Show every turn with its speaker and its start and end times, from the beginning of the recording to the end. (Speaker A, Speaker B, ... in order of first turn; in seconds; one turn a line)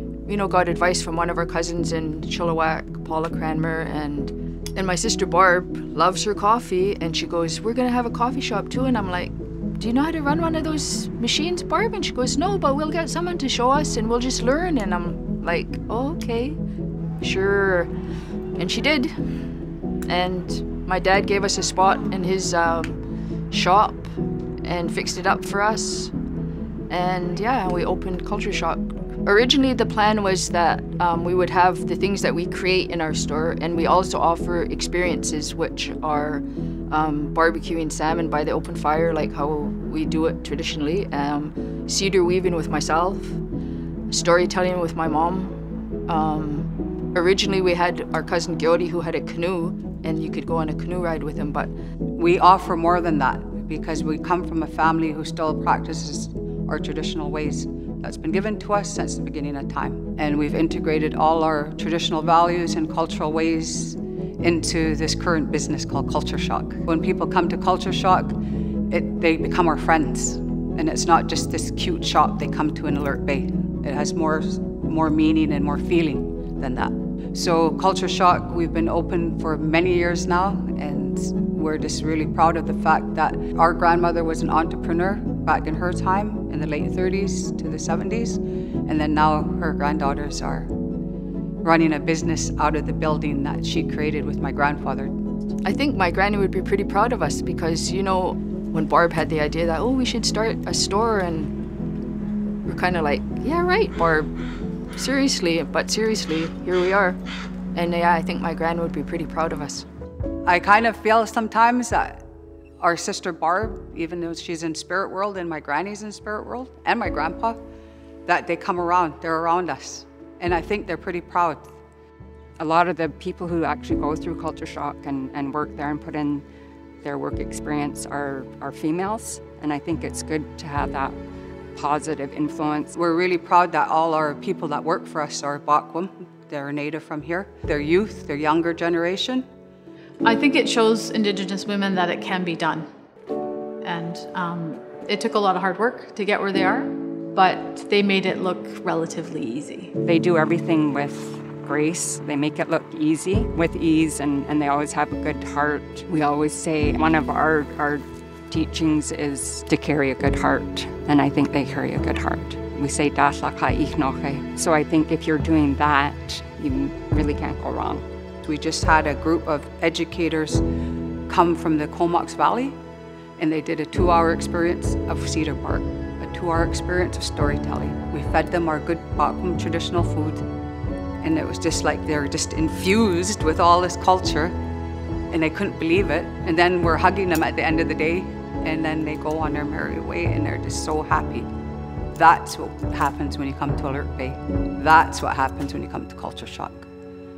Speaker A: 0.2-16.6
Speaker A: 17.2-17.9
Speaker A: 18.6-19.1
Speaker A: 20.1-24.1
Speaker A: 24.6-26.1
Speaker A: 26.9-43.4
Speaker A: 44.1-45.5
Speaker A: 46.1-51.7
Speaker B: 52.2-68.3
Speaker B: 68.9-90.7
Speaker B: 91.6-95.1
Speaker A: 95.6-101.5
Speaker A: 102.6-104.3
Speaker A: 104.9-107.2
Speaker A: 107.7-109.9
Speaker B: 110.5-112.2
Speaker B: 112.8-117.6
Speaker B: 118.3-121.8
Speaker C: 122.6-126.4
Speaker C: 127.0-131.2
Speaker C: 131.7-132.9
Speaker B: 132.9-139.4
Speaker D: 140.2-142.9
Speaker D: 143.8-149.9
Speaker C: 150.0-168.0
Speaker B: 168.4-170.6
Speaker B: 171.3-172.7
Speaker B: 173.4-180.4
Speaker B: 181.2-184.5
Speaker B: 185.3-191.5
Speaker B: 192.1-196.9